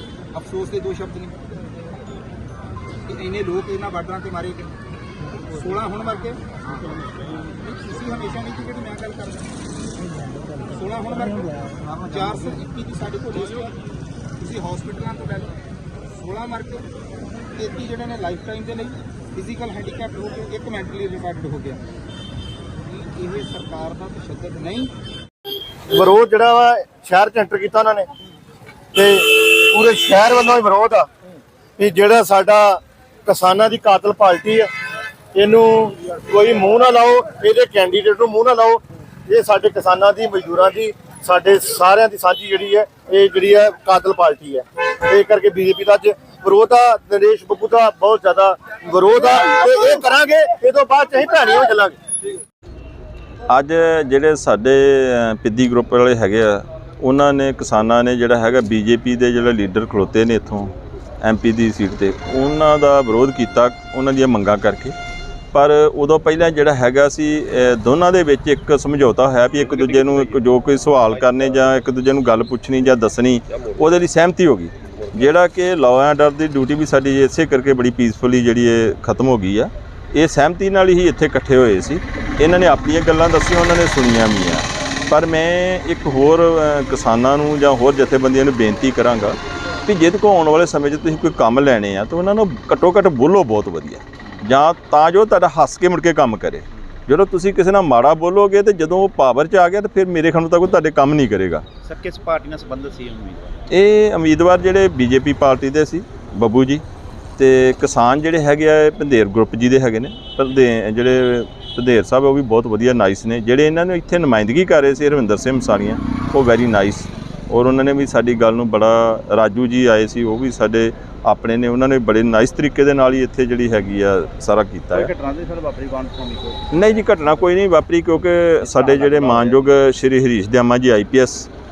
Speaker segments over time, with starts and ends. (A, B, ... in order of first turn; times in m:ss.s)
0:00.3-0:01.5 A
0:03.1-0:04.7 A
0:05.5-0:06.6 A
0:07.5-0:09.6 A
0:10.7-0:13.8 A
0:14.4-0:15.6 A
0:16.1-0:16.9 A
0:17.5-0:21.8 A
0:22.8-0:24.9 A
0:25.9-0:28.1 B
0:28.9-0:31.1 B
0:31.8-0:34.7 B
0:35.4-0:52.0 B
0:53.5-1:05.0 C
1:05.5-1:41.6 C
1:41.8-1:43.6 D
1:43.7-1:46.8 C
1:47.4-2:05.1 C
2:05.0-2:06.7 D
2:06.7-2:11.5 C
2:09.0-2:09.4 D